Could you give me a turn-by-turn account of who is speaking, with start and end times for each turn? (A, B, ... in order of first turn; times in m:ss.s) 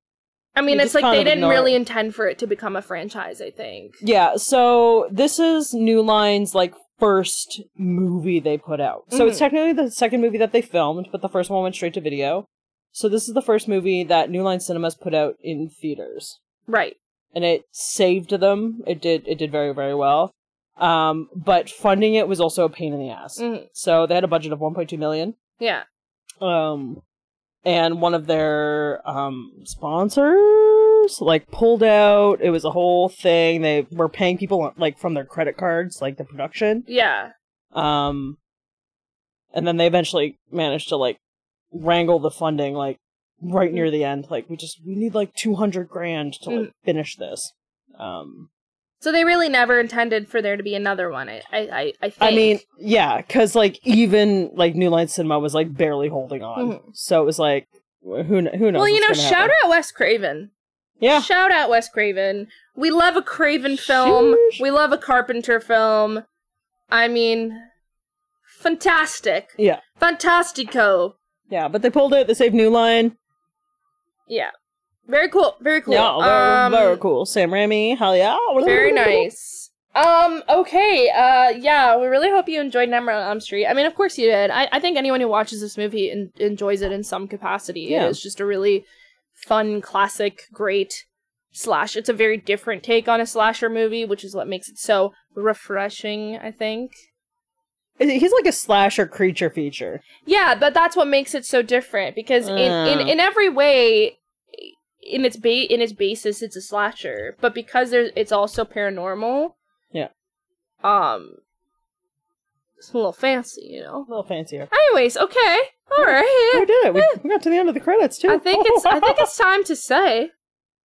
0:00.6-0:04.0 A
0:00.7-0:01.8 B
0:04.0-0:16.4 B
0:09.1-0:09.4 A
0:16.7-0:17.0 A
0:17.3-0:25.4 B
0:23.4-0:23.7 A
0:25.6-0:25.8 A
0:26.4-0:27.0 B
0:27.6-0:36.8 B
0:36.8-0:37.3 A
0:37.7-0:38.4 B
0:39.5-0:41.2 B
0:41.7-0:48.5 B
0:49.0-0:52.6 A
0:52.2-0:59.5 B
0:56.6-0:56.9 A
0:58.7-1:00.5 A
1:01.0-1:01.3 B
1:01.1-1:06.2 A
1:03.8-1:04.6 B
1:06.9-1:07.6 A
1:08.5-1:11.1 A
1:09.6-1:09.8 B
1:11.5-1:13.1 B
1:15.1-1:17.0 A
1:15.9-1:19.3 B
1:18.6-1:36.9 A
1:27.9-1:28.2 B
1:38.0-1:40.0 B
1:40.2-1:49.5 A
1:42.4-1:43.1 B
1:50.8-1:51.4 A
1:52.8-1:54.1 A
1:54.1-1:54.7 B
1:54.7-1:57.2 A
1:56.0-1:59.2 B
1:58.3-2:00.3 A